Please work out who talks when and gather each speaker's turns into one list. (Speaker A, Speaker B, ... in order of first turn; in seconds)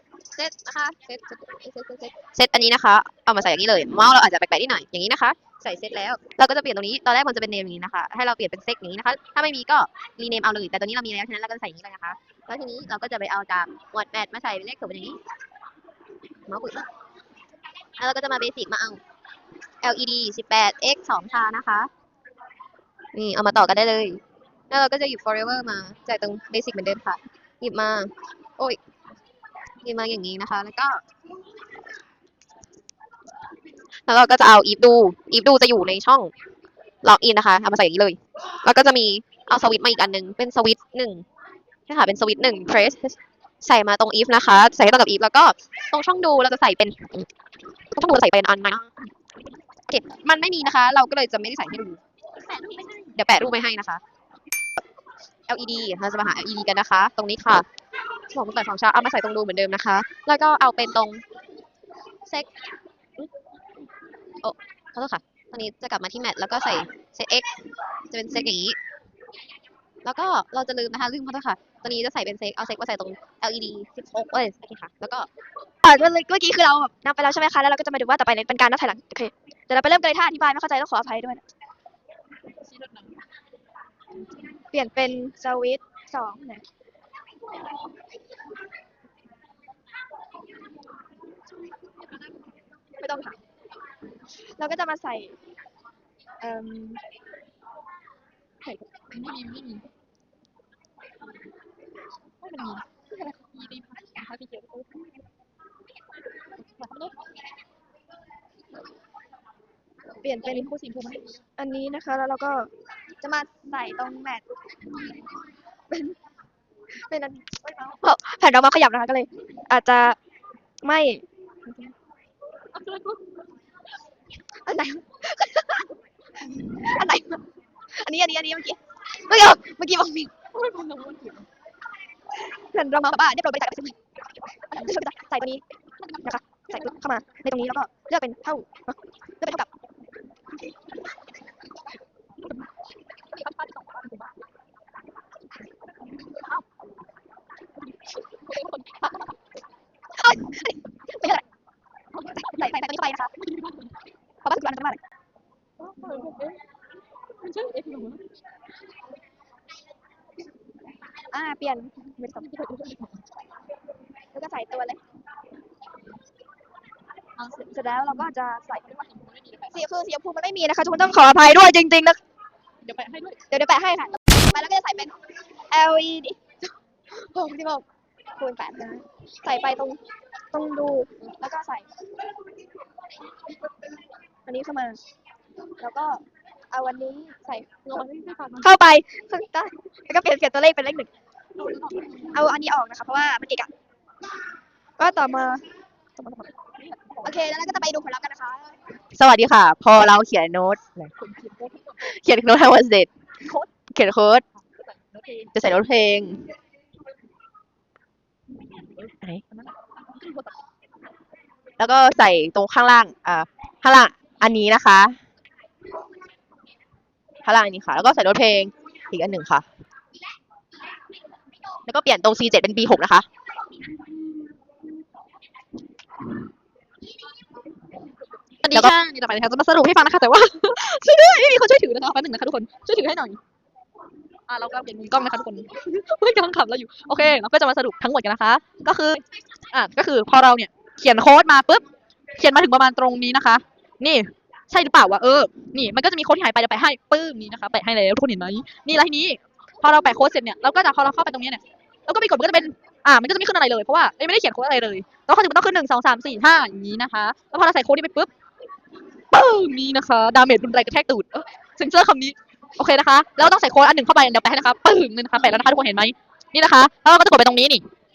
Speaker A: 0.3-15.2, 16.5-16.9, 18.0-19.0, 19.8-21.9, 23.1-28.8, 29.8-31.0, 34.1-36.3, 37.0-41.2, 41.9-47.3, 47.9-48.9, 49.9-52.0, 53.1-54.0, 55.5-57.6, 58.3-61.2, 64.4-67.5, 68.1-68.8, 70.0-75.3, 199.1-201.1, 202.0-203.1, 203.9-204.4, 205.5-206.4, 211.8-215.2, 217.4-219.6, 221.8-223.2
Speaker B: 52.5-53.1, 82.7-83.0, 99.1-99.8, 102.4-102.8, 103.5-105.0, 106.8-107.1, 110.4-111.4, 122.7-123.2, 130.5-131.4, 136.1-136.9, 143.3-144.2, 148.4-149.1, 152.2-152.7, 155.8-156.6, 157.4-158.2, 162.4-163.1, 167.4-168.2, 168.8-169.8, 172.8-173.4, 187.8-188.7, 191.6-192.4, 196.6-197.4, 201.2-202.0, 204.7-205.5, 209.1-210.5, 228.6-233.4, 234.5-241.8, 242.4-258.3, 259.3-267.8
Speaker C: 75.8-81.4, 84.7-86.6, 93.0-93.4, 94.6-95.4, 96.4-97.0, 98.6-99.1, 110.2-110.7, 111.6-112.7, 113.2-114.5, 115.9-116.2, 117.1-120.2, 120.8-121.9, 124.7-125.9, 126.5-127.4, 128.0-130.3, 132.6-133.9, 134.7-135.6, 136.2-139.7, 150.2-151.4, 152.4-153.3, 154.4-155.0, 161.3-162.5, 164.3-165.0, 167.7-168.8, 169.7-172.2, 173.5-175.2, 175.7-176.4, 177.1-177.8, 178.4-180.0, 180.5-181.9, 184.4-185.0, 185.8-187.9, 188.6-191.1, 192.3-193.7, 195.0-195.6, 197.2-198.7